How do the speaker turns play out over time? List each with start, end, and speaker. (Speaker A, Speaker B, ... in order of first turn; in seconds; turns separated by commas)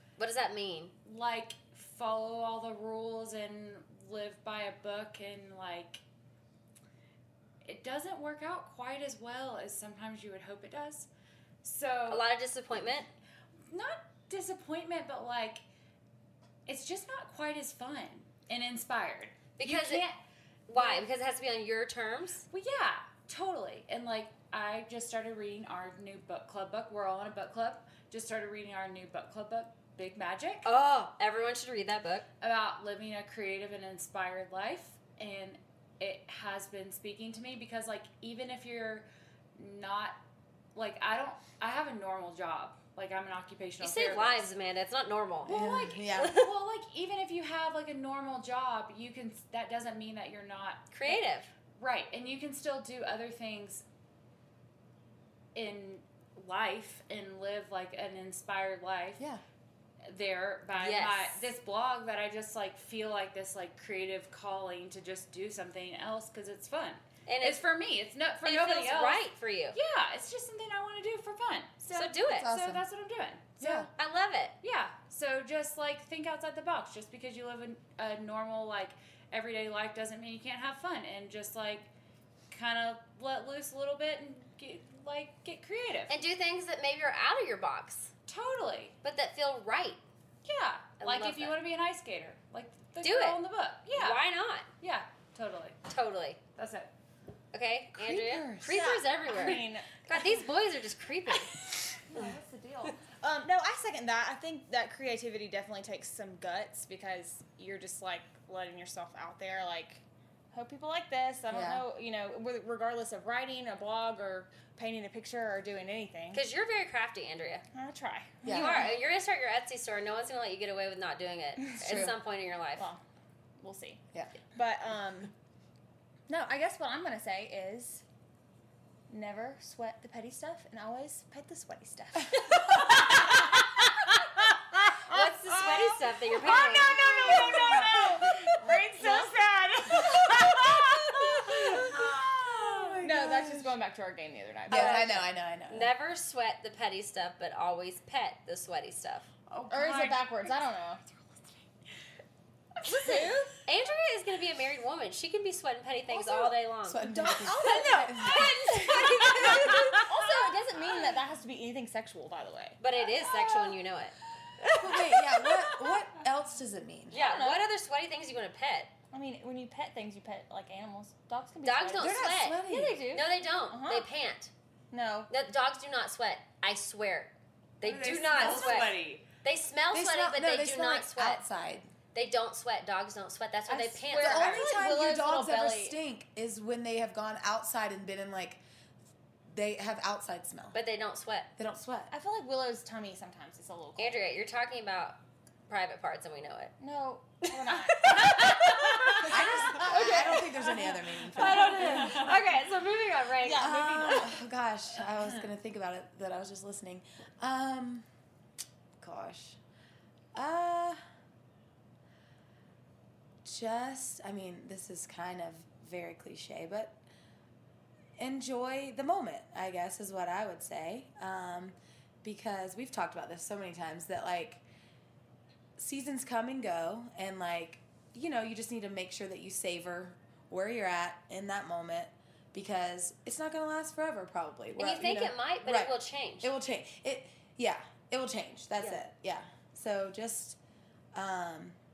Speaker A: 0.2-0.9, Speaker B: 1.1-6.0, Speaker B: 7.7-11.1, Speaker B: 11.6-12.3, Speaker A: 12.1-13.1, Speaker B: 13.7-15.6, Speaker B: 16.7-20.2, Speaker A: 19.6-20.1, Speaker A: 20.7-22.4, Speaker B: 20.7-21.1, Speaker B: 22.5-30.7, Speaker A: 30.6-32.2, Speaker B: 32.4-40.2, Speaker B: 40.8-44.5, Speaker A: 43.8-45.6, Speaker B: 45.5-51.2, Speaker C: 45.5-46.4, Speaker A: 46.1-46.5, Speaker A: 50.9-51.5, Speaker B: 51.8-53.8, Speaker B: 55.5-59.2, Speaker B: 60.0-73.9, Speaker A: 60.7-61.4, Speaker A: 67.3-67.6, Speaker A: 68.5-69.8, Speaker A: 71.9-72.5, Speaker C: 72.3-72.8, Speaker C: 73.6-73.9, Speaker A: 74.0-74.5, Speaker B: 74.6-81.9, Speaker B: 82.5-86.2, Speaker A: 86.1-88.1, Speaker B: 88.3-89.0, Speaker A: 89.0-90.0, Speaker B: 90.5-94.2, Speaker A: 91.0-91.6, Speaker A: 93.0-93.4, Speaker A: 93.9-94.7, Speaker B: 94.8-95.8, Speaker A: 95.9-96.4, Speaker B: 96.6-96.9, Speaker A: 97.5-101.5, Speaker D: 98.0-100.4, Speaker D: 102.0-116.4, Speaker C: 111.5-111.9, Speaker A: 116.3-117.7, Speaker D: 117.7-118.9, Speaker C: 118.4-118.9, Speaker A: 118.5-122.9, Speaker C: 121.8-122.2, Speaker D: 123.6-125.3, Speaker D: 126.3-128.0, Speaker D: 129.1-133.7, Speaker D: 134.8-141.5, Speaker A: 135.1-137.0, Speaker B: 136.9-138.0, Speaker C: 137.2-137.9, Speaker B: 139.0-139.3, Speaker B: 140.0-143.0, Speaker C: 141.5-143.8, Speaker D: 143.0-145.2, Speaker C: 144.7-145.9, Speaker A: 144.7-145.1, Speaker A: 145.7-149.3, Speaker B: 149.5-150.6, Speaker D: 149.7-151.0, Speaker B: 152.9-153.2, Speaker D: 152.9-153.6, Speaker A: 153.7-160.1, Speaker D: 156.1-162.8, Speaker C: 156.8-159.0, Speaker A: 162.8-164.2, Speaker D: 164.7-165.2, Speaker C: 164.8-167.2, Speaker D: 167.1-167.7, Speaker A: 167.1-168.9, Speaker D: 169.1-174.1, Speaker A: 171.6-174.5, Speaker C: 172.0-173.0, Speaker D: 174.9-175.3, Speaker A: 175.3-181.4, Speaker B: 177.8-179.3, Speaker C: 179.9-181.9, Speaker A: 182.1-184.7, Speaker D: 183.7-186.0, Speaker C: 184.0-188.6, Speaker C: 189.5-190.8, Speaker A: 190.7-191.5, Speaker C: 191.6-192.1, Speaker D: 192.1-194.3, Speaker A: 194.0-195.2, Speaker A: 195.7-196.7, Speaker D: 196.8-198.5, Speaker A: 197.8-200.5, Speaker C: 199.2-202.3, Speaker D: 199.2-200.4, Speaker A: 201.3-203.8, Speaker B: 201.4-202.3, Speaker D: 201.9-202.2, Speaker D: 203.4-204.4, Speaker C: 203.6-208.1, Speaker C: 209.0-209.6, Speaker C: 210.3-211.0, Speaker C: 213.4-217.0, Speaker C: 218.2-224.6, Speaker C: 225.8-240.6, Speaker A: 234.8-236.5, Speaker C: 241.1-241.8